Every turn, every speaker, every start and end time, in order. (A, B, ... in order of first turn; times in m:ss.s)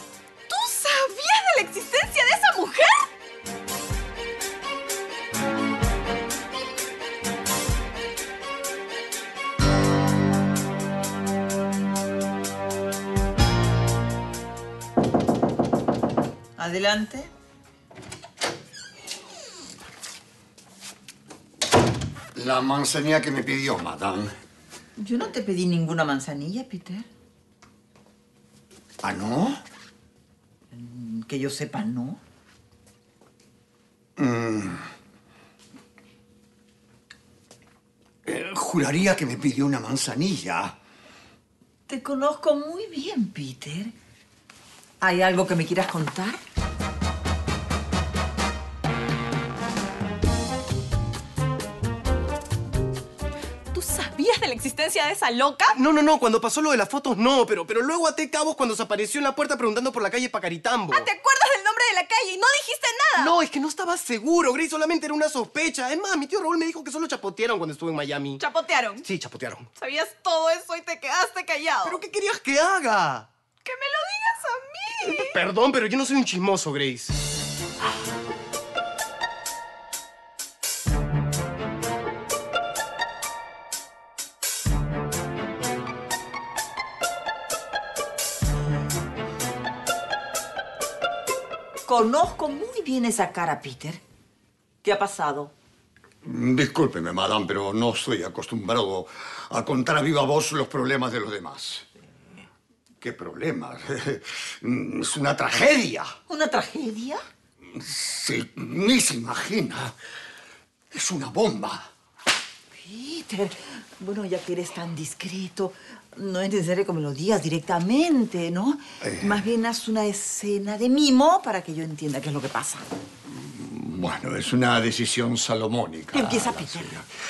0:00.5-0:03.1 A
0:16.6-0:17.3 B
0:22.3-0:24.3 C
0:25.0-0:27.1 B
0:29.0-0:29.6 C
0:30.7-0:32.2 B
0:34.2-0:34.9 C
0:38.2-0:40.8 C
0:41.9-0:43.9 B
0:45.0-0:46.4 B
0:53.7-0:55.8 A
0:55.7-1:01.1 D
1:00.9-1:03.3 A
1:03.2-1:08.4 D
1:08.4-1:09.0 A
1:09.0-1:09.7 D
1:09.8-1:12.0 A
1:11.8-1:13.3 D
1:13.6-1:15.2 A
1:15.0-1:17.2 D
1:31.8-1:34.0 B
1:34.8-1:35.5 B
1:36.2-1:41.8 C
1:43.0-1:46.1 C
1:46.3-1:47.2 B
1:47.7-1:49.9 C
1:50.9-1:51.9 C
1:52.8-2:02.8 B
1:59.0-1:59.4 C
2:03.3-2:07.1 C
2:06.1-2:06.9 B